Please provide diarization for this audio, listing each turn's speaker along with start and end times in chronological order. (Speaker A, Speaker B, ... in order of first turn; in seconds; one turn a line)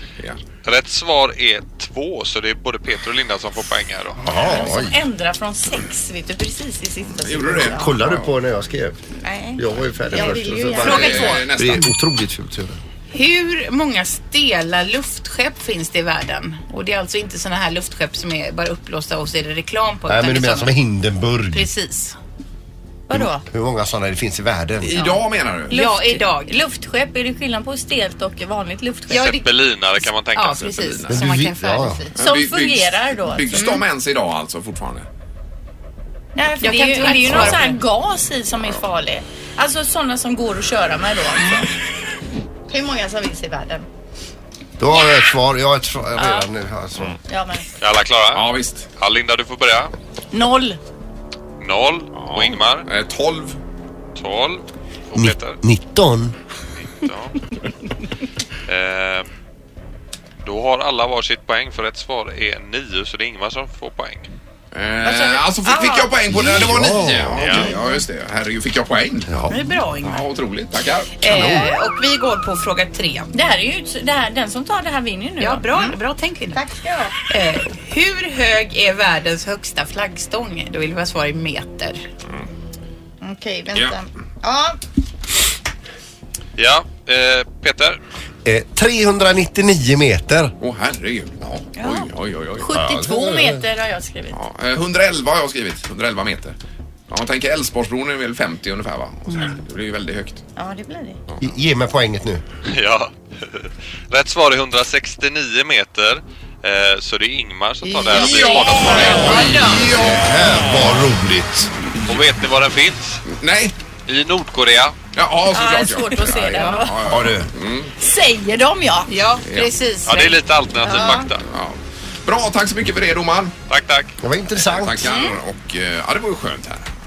Speaker A: 0.6-4.2
Speaker B: 4.2-5.0
Speaker C: 4.4-7.9
Speaker D: 4.4-6.2
Speaker E: 7.2-8.3
Speaker B: 7.6-9.0
Speaker C: 9.3-9.6
Speaker B: 9.6-12.8
Speaker C: 10.1-11.3
Speaker D: 10.2-11.5
Speaker E: 10.8-11.9
Speaker D: 13.1-20.8
Speaker B: 20.1-21.7
Speaker D: 21.5-22.2
Speaker C: 23.1-23.4
Speaker B: 23.1-25.0
Speaker E: 24.8-25.8
Speaker D: 25.7-26.6
Speaker C: 25.7-29.4
Speaker D: 29.1-29.5
Speaker A: 29.1-30.9
Speaker D: 30.3-32.8
Speaker E: 30.8-31.1
Speaker B: 31.1-32.0
Speaker C: 31.7-33.8
Speaker E: 32.1-35.1
Speaker D: 33.5-33.8
Speaker C: 36.4-41.7
Speaker D: 36.4-37.9
Speaker C: 42.7-43.9
Speaker B: 44.8-47.1
Speaker C: 47.3-47.7
Speaker A: 47.8-49.9
Speaker E: 48.3-48.9
Speaker C: 50.3-50.8
Speaker A: 51.6-52.9
Speaker E: 52.1-53.6
Speaker A: 54.2-55.6
Speaker B: 55.1-56.3
Speaker A: 57.0-57.5
Speaker A: 58.7-59.3
Speaker A: 60.4-64.3
Speaker E: 64.7-69.3
Speaker C: 65.0-66.1
Speaker B: 66.3-67.6
Speaker A: 67.4-67.7
Speaker C: 67.7-68.0
Speaker B: 69.3-69.5
Speaker D: 69.5-70.2
Speaker E: 70.0-71.2
Speaker D: 71.2-73.6
Speaker B: 71.3-71.7
Speaker C: 73.3-76.0
Speaker D: 75.4-76.6
Speaker C: 76.5-77.2
Speaker D: 77.3-82.0
Speaker C: 83.2-84.8
Speaker A: 86.6-88.0
Speaker B: 88.5-90.5
Speaker E: 90.6-92.7
Speaker C: 91.8-94.4
Speaker B: 92.7-93.6
Speaker E: 94.3-96.5
Speaker E: 97.1-100.4
Speaker C: 100.6-101.2
Speaker B: 101.4-102.4
Speaker A: 102.7-109.5
Speaker C: 107.9-109.9
Speaker E: 108.0-110.3
Speaker B: 109.4-111.7
Speaker A: 112.1-113.2
Speaker E: 113.3-113.8
Speaker A: 114.1-115.0
Speaker E: 115.1-117.9
Speaker C: 115.5-116.9
Speaker D: 116.4-116.8
Speaker B: 117.1-117.5
Speaker C: 118.0-119.2
Speaker D: 119.1-120.3
Speaker E: 119.4-119.7
Speaker A: 120.1-121.4
Speaker C: 120.8-121.3
Speaker E: 121.4-123.5
Speaker A: 123.7-124.1
Speaker B: 124.2-125.1
Speaker E: 124.6-126.9